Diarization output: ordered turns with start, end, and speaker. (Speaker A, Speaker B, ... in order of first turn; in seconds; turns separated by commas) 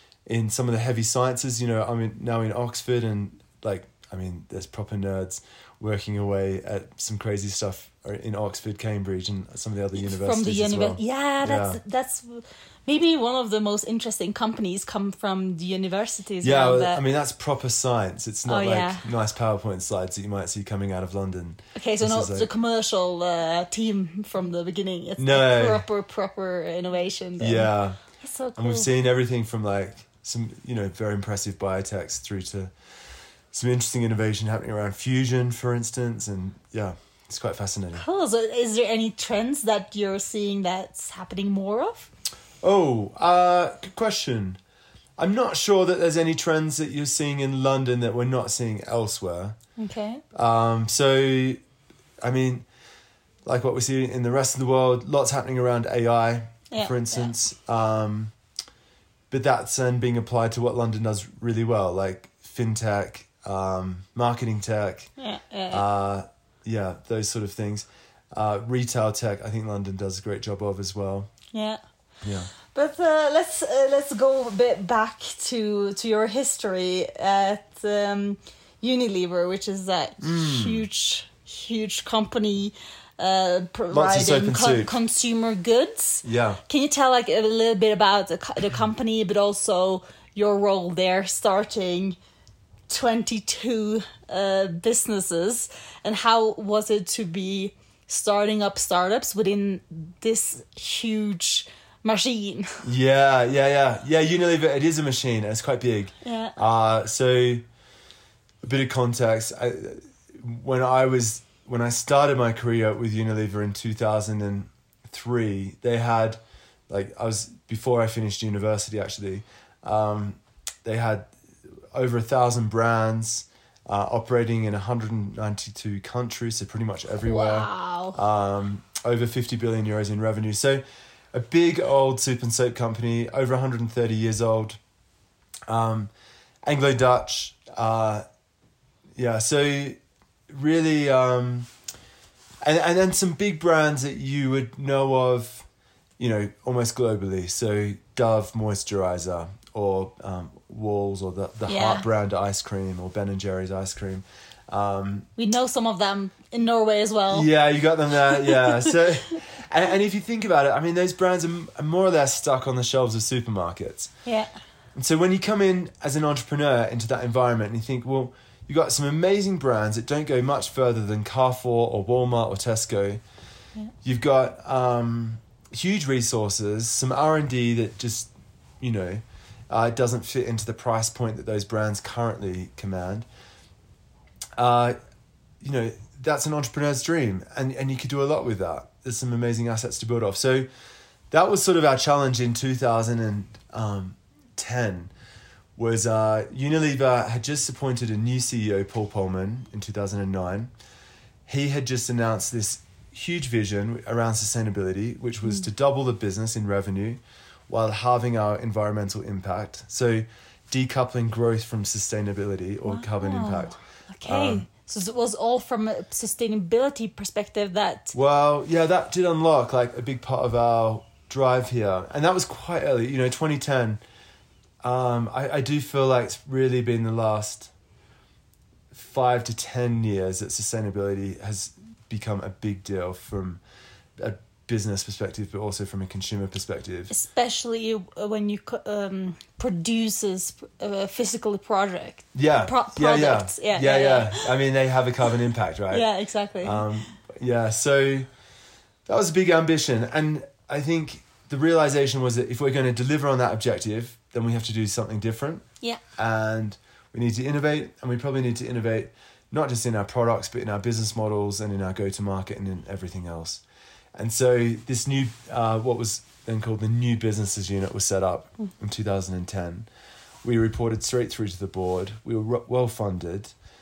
Speaker A: 0.3-11.8, Speaker B: 9.9-17.0, Speaker A: 16.4-22.5, Speaker B: 18.5-19.1, Speaker B: 21.8-28.9, Speaker A: 25.2-25.9, Speaker A: 27.4-28.0, Speaker A: 28.6-32.7, Speaker A: 33.5-38.0, Speaker B: 37.9-42.1, Speaker A: 42.6-44.6, Speaker A: 45.2-49.6, Speaker B: 49.8-50.2, Speaker A: 50.3-51.6, Speaker A: 52.2-52.7, Speaker A: 53.4-58.3, Speaker B: 56.7-57.3, Speaker A: 59.3-65.1, Speaker B: 65.2-65.8, Speaker A: 65.7-71.3, Speaker B: 71.5-71.8, Speaker A: 72.2-72.5, Speaker B: 72.7-92.2, Speaker A: 80.2-80.9, Speaker A: 83.9-85.0, Speaker A: 86.2-86.6, Speaker B: 92.9-102.8, Speaker A: 102.8-107.7, Speaker B: 106.2-106.6, Speaker A: 108.6-121.3, Speaker A: 121.9-130.8, Speaker B: 127.2-128.2, Speaker A: 131.3-134.8, Speaker A: 135.7-136.1, Speaker A: 136.7-138.2, Speaker A: 139.2-141.7, Speaker A: 142.6-145.7, Speaker A: 146.2-155.3, Speaker B: 151.7-152.1, Speaker B: 155.4-157.5, Speaker A: 157.3-164.1, Speaker B: 158.3-158.9, Speaker B: 164.2-164.5, Speaker A: 164.9-173.2, Speaker A: 174.0-183.2, Speaker A: 184.6-184.9, Speaker A: 185.6-190.7, Speaker A: 191.3-195.1, Speaker A: 195.8-200.7, Speaker A: 201.4-214.7, Speaker B: 212.8-218.2, Speaker A: 218.1-224.0, Speaker A: 224.8-227.7, Speaker A: 228.9-233.6, Speaker A: 234.2-237.1, Speaker B: 237.1-244.5, Speaker A: 242.3-246.1, Speaker B: 245.9-246.9, Speaker A: 246.6-248.3, Speaker A: 249.1-255.7, Speaker A: 256.2-263.6, Speaker A: 264.2-269.9, Speaker A: 270.4-273.5